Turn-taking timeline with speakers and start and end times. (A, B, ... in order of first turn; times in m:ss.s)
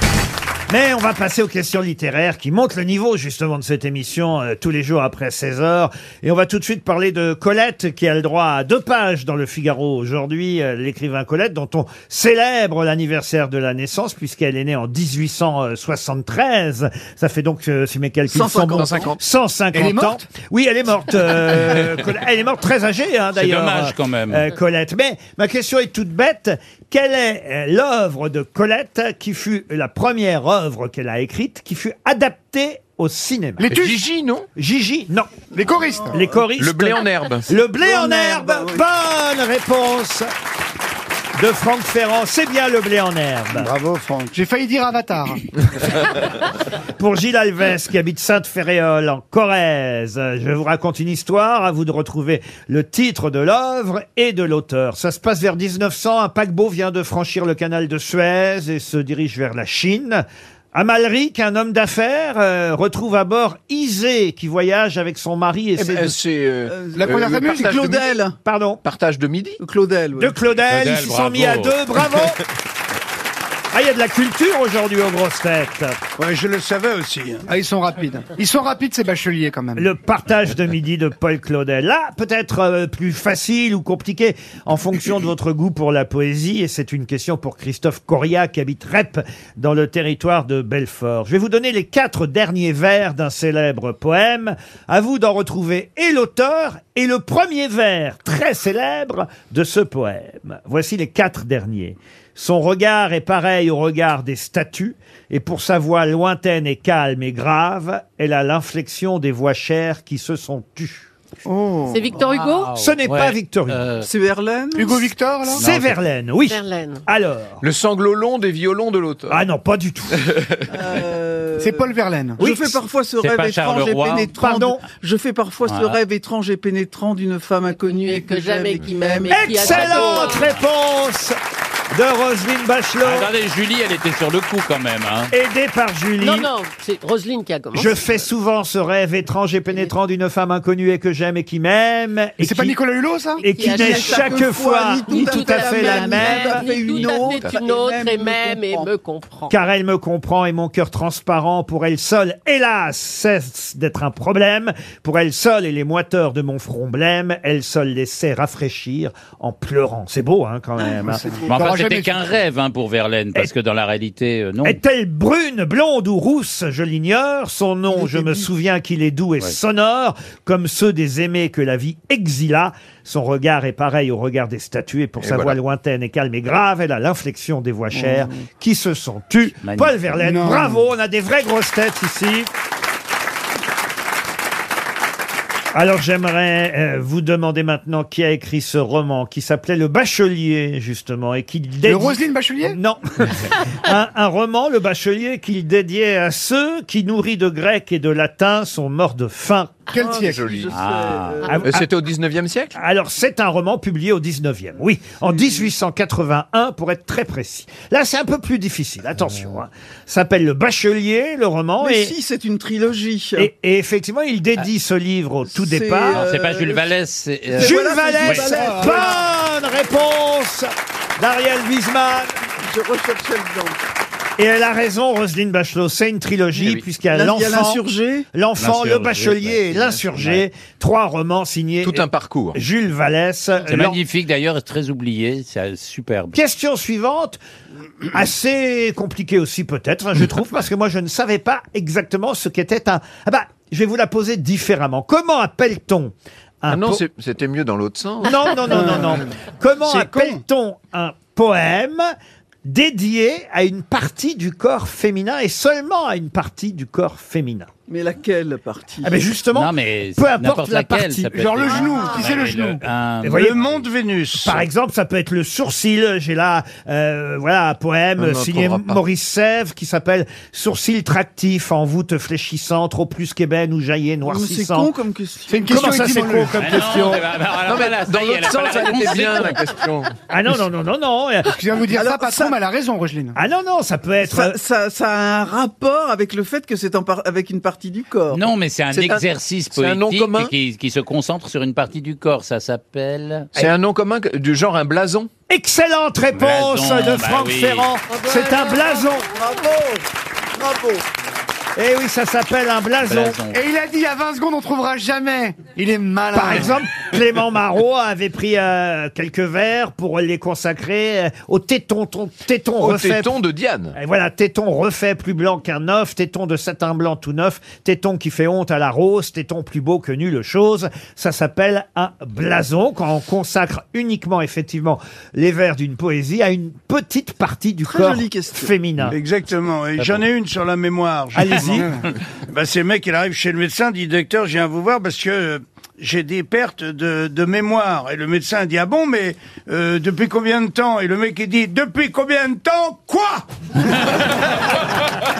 0:00.7-0:33.8 A
0:18.3-0:19.2 B
0:18.8-0:19.1 C
0:19.7-0:20.3 D
0:23.3-0:24.5 E
0:33.6-0:34.0 D
0:33.6-0:34.5 C
0:34.5-0:35.3 A
0:35.5-0:36.2 D
0:35.8-0:36.4 B
0:36.1-0:40.3 A
0:36.5-0:37.5 C
0:37.8-0:38.8 B
0:41.4-0:43.7 A
0:43.5-0:44.3 F
0:44.3-0:45.4 D
0:47.0-1:06.2 A
1:05.8-1:08.0 C
1:06.7-1:08.3 B
1:06.9-1:07.8 D
1:08.4-1:08.8 A
1:08.8-1:09.6 C
1:09.6-1:10.3 B
1:10.2-1:12.4 A
1:10.7-1:11.8 E
1:13.7-1:16.0 A
1:16.2-1:17.5 F
1:17.5-1:19.8 D
1:19.8-1:51.1 A
1:51.5-1:51.8 D
1:51.6-1:52.0 B
1:51.9-1:52.7 G
1:52.2-1:54.1 E
1:52.8-1:53.8 A
1:54.0-1:55.1 B
1:54.7-1:55.6 D
1:55.5-1:56.0 E
1:55.6-1:57.6 A
1:56.5-1:57.0 G
1:57.6-1:59.4 C
1:59.3-2:00.2 A
2:00.2-2:00.6 C
2:00.7-2:10.3 B
2:01.6-2:02.4 D
2:02.4-2:02.8 A
2:03.2-2:04.3 E
2:04.4-2:04.8 A
2:05.6-2:06.0 E
2:07.8-2:10.5 G
2:09.3-2:11.4 A
2:11.9-2:13.3 A
2:13.0-2:15.3 E
2:15.3-2:16.5 A
2:16.2-2:18.0 G
2:17.7-2:22.8 A
2:22.4-2:23.4 D
2:23.4-2:29.5 G
2:23.4-2:26.7 A
2:23.6-2:28.9 B
2:27.3-2:27.6 C
2:29.5-2:41.3 A
2:41.0-2:41.7 B
2:41.1-2:42.2 D
2:41.5-2:44.8 E
2:44.6-3:02.5 A
2:48.0-2:48.4 D
2:55.2-2:55.6 C
2:57.9-2:58.2 D
2:59.6-3:00.0 E
3:00.1-3:00.8 D
3:05.7-3:19.7 A
3:11.8-3:12.8 D
3:19.9-3:20.5 D
3:19.9-3:21.6 B
3:20.3-3:20.7 C
3:20.7-3:21.4 E
3:21.5-3:21.9 A
3:21.6-3:22.7 C
3:22.7-3:32.1 A
3:31.8-3:33.5 B
3:33.4-3:36.3 A
3:35.4-3:36.9 B
3:36.1-3:38.4 E
3:37.5-3:39.2 B
3:37.6-3:42.4 A
3:38.4-3:39.0 D
3:42.6-3:43.8 B
3:44.4-3:47.8 A
3:46.6-3:46.8 C
3:47.1-3:48.3 B
3:48.3-3:54.0 A
3:48.6-3:50.4 E
3:51.8-3:52.6 C
3:53.7-3:56.4 E
3:56.3-3:57.4 A
3:58.1-4:07.0 A
4:06.7-4:08.5 C
4:08.2-4:12.1 A
4:08.7-4:09.1 F
4:09.8-4:10.4 F
4:12.6-4:17.7 A
4:17.9-4:19.2 B
4:19.0-4:21.4 A
4:19.5-4:23.8 E
4:21.3-4:22.8 D
4:21.7-4:22.5 B
4:23.2-4:23.6 A
4:23.3-4:24.6 F
4:24.4-4:34.9 A
4:28.2-4:29.0 C
4:34.2-4:35.9 B
4:35.5-4:36.9 D
4:35.7-4:37.2 A
4:36.6-4:39.6 E
4:37.6-4:40.1 C
4:40.3-4:41.6 A
4:41.6-4:43.4 D
4:41.9-4:42.6 B
4:43.3-4:44.6 A
4:44.2-4:49.2 B
4:48.3-4:53.5 E
4:49.7-4:50.5 C
4:53.5-4:55.3 C
4:55.5-4:59.3 A
4:56.3-4:57.9 E
4:58.1-4:59.6 G
4:59.3-5:01.0 B
5:01.8-5:03.4 A
5:03.0-5:03.6 E
5:03.5-5:06.8 D
5:06.3-5:13.3 A
5:12.8-5:13.9 C
5:13.9-5:29.2 A
5:27.8-5:28.7 B
5:29.0-5:31.9 F
5:31.3-5:31.9 A
5:32.5-5:43.4 F